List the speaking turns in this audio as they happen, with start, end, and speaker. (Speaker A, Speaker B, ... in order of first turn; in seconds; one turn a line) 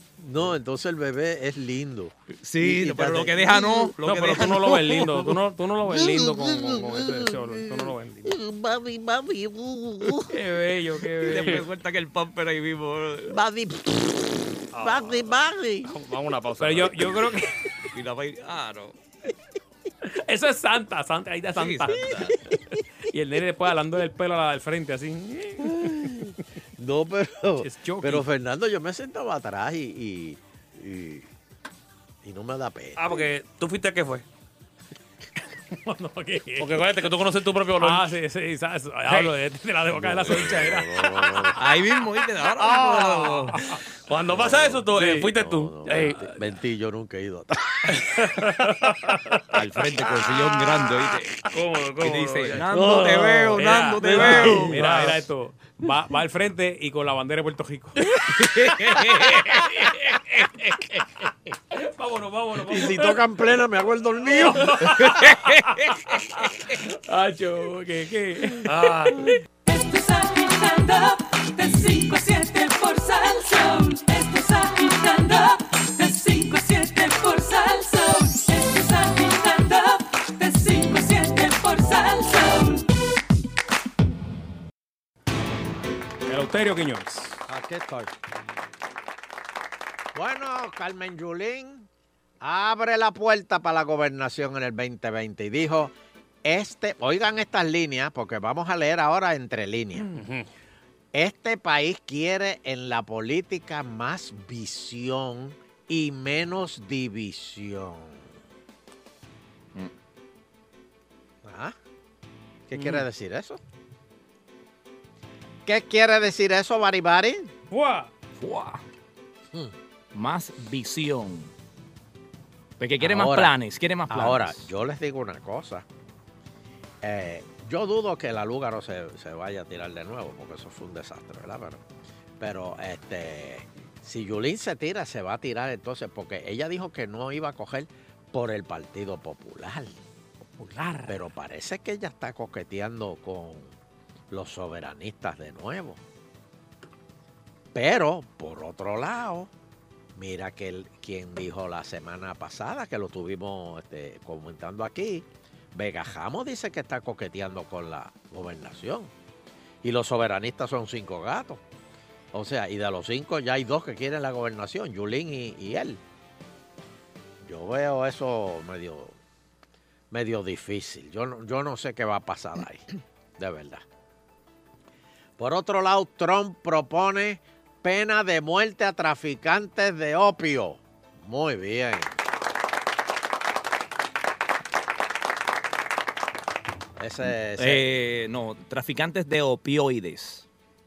Speaker A: 0.2-3.9
Speaker B: 2.4-5.3
Speaker C: 4.0-8.3
Speaker A: 5.8-10.3
Speaker C: 10.3-11.7
Speaker B: 11.2-13.4
Speaker A: 13.3-15.9
Speaker D: 14.7-15.3
Speaker D: 15.8-17.1
Speaker C: 16.6-17.6
Speaker B: 17.9-19.0
Speaker C: 20.1-22.3
Speaker B: 21.5-22.4
Speaker C: 23.1-26.1
Speaker A: 25.6-31.3
Speaker C: 27.6-28.2
Speaker A: 32.2-33.2
Speaker D: 33.0-34.2
Speaker C: 35.7-36.8
Speaker D: 36.6-38.1
Speaker C: 37.8-41.5
Speaker D: 39.1-39.3
Speaker A: 40.0-41.6
Speaker B: 40.3-40.7
Speaker B: 41.6-43.6
Speaker D: 44.1-46.2
Speaker A: 44.3-48.0
Speaker C: 45.0-45.2
Speaker D: 48.0-48.6
Speaker C: 48.7-49.0
Speaker B: 49.5-51.5
Speaker D: 51.5-52.7
Speaker B: 52.0-55.2
Speaker C: 52.6-58.1
Speaker D: 53.6-55.2
Speaker A: 54.4-54.6
Speaker B: 58.2-59.6
Speaker C: 59.4-60.0
Speaker C: 61.7-63.2
Speaker A: 62.7-65.0
Speaker C: 64.3-69.3
Speaker B: 64.8-66.1
Speaker D: 68.7-69.2
Speaker E: 69.7-82.9
Speaker C: 86.3-87.4
Speaker A: 87.5-88.1
Speaker A: 90.2-91.9
Speaker A: 92.4-95.9
Speaker A: 96.4-100.1
Speaker D: 100.1-100.5
Speaker A: 101.1-108.3
Speaker A: 111.4-111.8
Speaker A: 112.7-113.6
Speaker C: 112.8-113.0
Speaker A: 115.7-117.5
Speaker C: 117.7-118.1
Speaker B: 118.3-118.8
Speaker B: 120.1-121.5
Speaker B: 122.8-124.7
Speaker A: 123.0-123.5
Speaker A: 124.1-125.9
Speaker A: 127.0-131.8
Speaker A: 132.4-140.0
Speaker B: 140.8-141.1
Speaker A: 141.0-143.7
Speaker A: 144.3-146.0
Speaker A: 147.7-149.5
Speaker A: 150.2-159.1
Speaker A: 159.8-161.6
Speaker A: 162.3-166.0
Speaker A: 167.4-169.2
Speaker A: 170.1-172.9
Speaker A: 173.4-173.8
Speaker A: 175.4-182.2
Speaker A: 187.0-187.9
Speaker B: 187.6-190.5